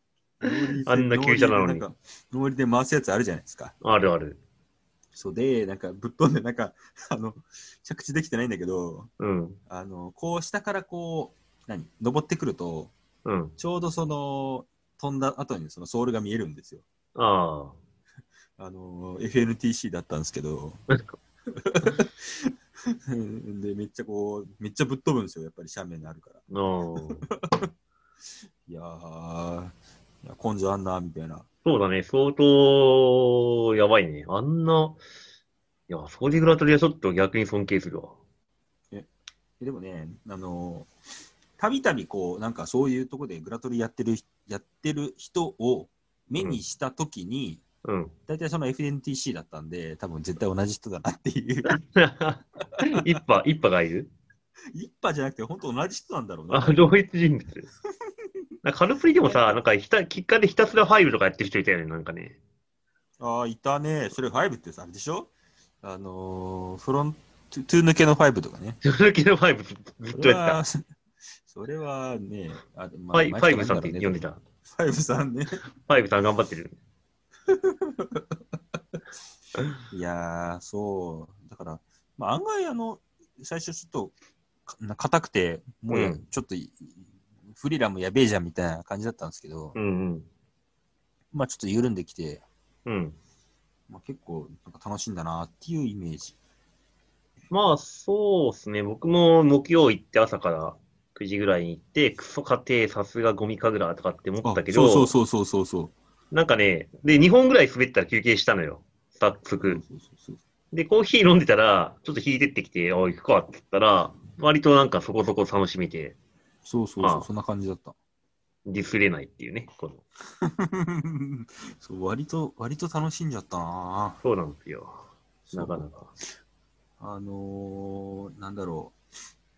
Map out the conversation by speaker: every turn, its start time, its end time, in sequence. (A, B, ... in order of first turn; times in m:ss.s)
0:00.4-0:03.7 A
0:00.4-0:01.9 B
0:03.8-0:04.4 B
0:05.1-0:09.1 A
0:09.2-0:09.6 B
0:09.7-0:12.9 A
0:13.2-0:13.5 B
0:13.6-0:16.8 A
0:17.2-0:17.8 B
0:18.6-0:20.8 A
0:21.6-0:26.4 A
0:26.5-0:27.3 B
0:27.3-0:27.7 A
0:28.7-0:31.5 A
0:31.6-0:35.0 B
0:35.9-0:38.2 B
0:39.6-0:40.9 A
0:41.6-0:47.6 A
0:47.8-0:48.1 B
0:48.3-0:51.8 A
0:51.7-0:54.1 B
0:54.7-0:56.9 A
0:56.5-0:57.7 B
0:58.6-1:02.4 B
0:59.2-0:59.6 A
1:03.2-1:05.3 A
1:05.8-1:08.8 A
1:08.8-1:10.6 B
1:10.1-1:10.8 A
1:11.4-1:15.6 A
1:13.1-1:14.4 B
1:15.8-1:16.8 B
1:17.5-1:18.3 A
1:19.9-1:24.1 A
1:24.7-1:29.8 A
1:25.9-1:26.2 B
1:29.8-1:30.3 B
1:31.3-1:32.4 A
1:32.8-1:33.2 B
1:33.9-1:36.4 A
1:37.5-1:45.1 B
1:44.4-1:45.9 A
1:46.3-1:49.8 B
1:49.6-1:50.4 A
1:50.7-1:56.2 B
1:56.7-1:58.0 A
1:57.0-1:57.3 B
1:58.7-2:00.0 B
2:00.4-2:04.2 A
2:04.2-2:06.1 B
2:05.5-2:05.9 A
2:07.0-2:08.9 A